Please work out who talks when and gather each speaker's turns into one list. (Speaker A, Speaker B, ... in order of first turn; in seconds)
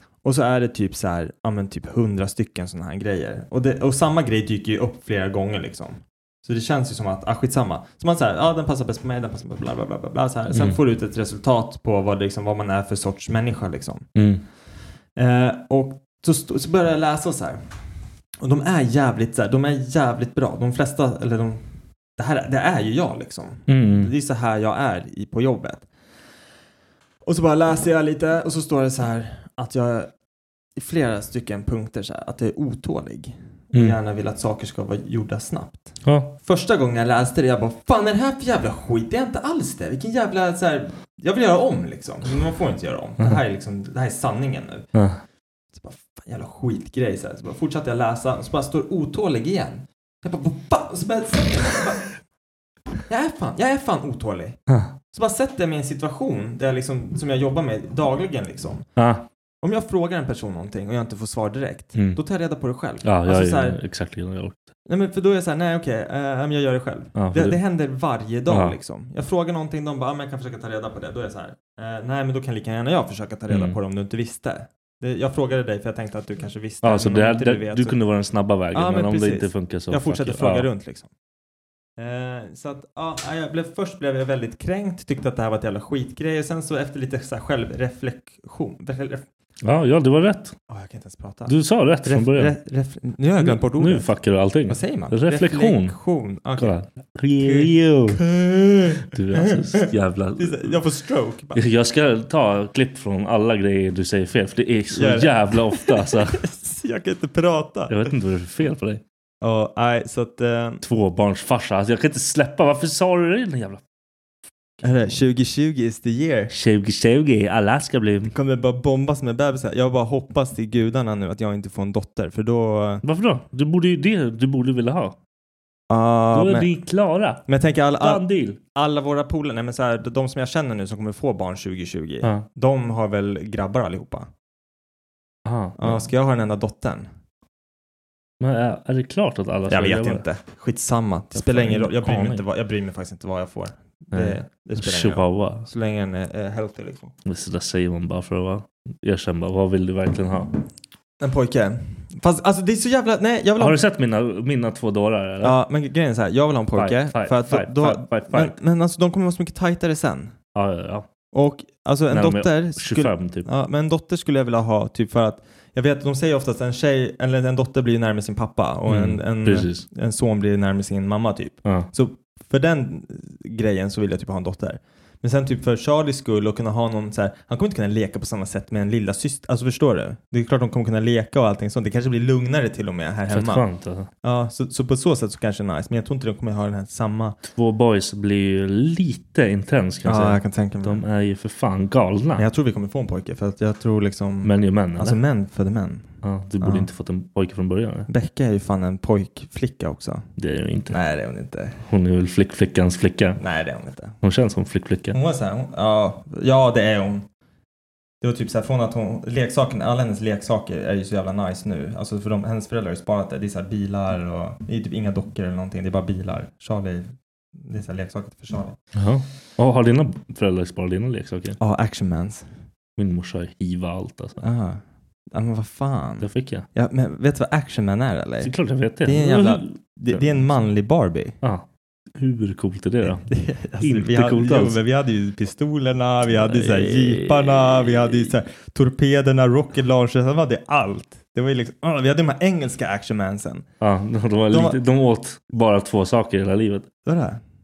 Speaker A: 0.2-14.1, 15.2-17.8, 18.4-25.9, 27.2-30.1, 30.8-44.9, 45.7-52.1, 53.1-54.6, 55.1-58.9, 59.6-63.8, 64.8-78.0, 78.7-81.1, 82.0-89.3, 90.7-94.1, 94.7-96.7, 97.4-99.9, 100.4-101.6, 104.9-108.1, 109.4-110.8, 114.8-116.5, 118.2-123.0, 125.9-126.7, 127.5-128.2, 128.7-134.3, 135.8-137.1, 139.7-147.1, 151.2-153.8, 155.4-160.3, 161.3-183.7, 184.2-187.4, 190.0-191.0, 192.4-196.9, 198.1-200.2, 200.9-201.8, 203.4-204.2, 205.1-207.2, 208.2-218.8, 221.6-222.5, 224.4-228.5, 229.0-231.3, 233.0-243.7, 244.5-244.8, 247.1-247.4
Speaker B: 10.5-10.8, 14.2-14.4, 23.7-24.1, 36.0-36.3, 54.7-54.9, 59.0-59.2, 61.9-62.2, 63.0-64.6, 67.1-67.6, 68.5-68.8, 73.5-73.8, 76.8-80.7, 89.6-90.5, 91.5-92.5, 93.4-96.0, 96.6-98.2, 99.1-100.8, 101.5-106.4, 107.9-109.0, 110.8-113.8, 114.8-115.2, 116.5-118.3, 123.0-125.2, 126.3-127.4, 128.0-128.6, 135.4-136.0, 138.4-140.2, 141.3-142.4, 144.1-145.7, 147.2-150.6, 153.6-155.6, 156.8-158.5, 160.5-161.1, 162.1-163.5, 168.9-169.8, 183.3-184.1, 187.5-192.4, 194.4-195.2, 196.2-198.1, 200.4-201.0, 201.9-203.4, 204.2-205.2, 218.9-221.6, 223.0-224.4, 226.2-226.7, 228.4-230.4, 231.4-233.3, 233.8-234.8, 236.3-238.3, 243.8-246.9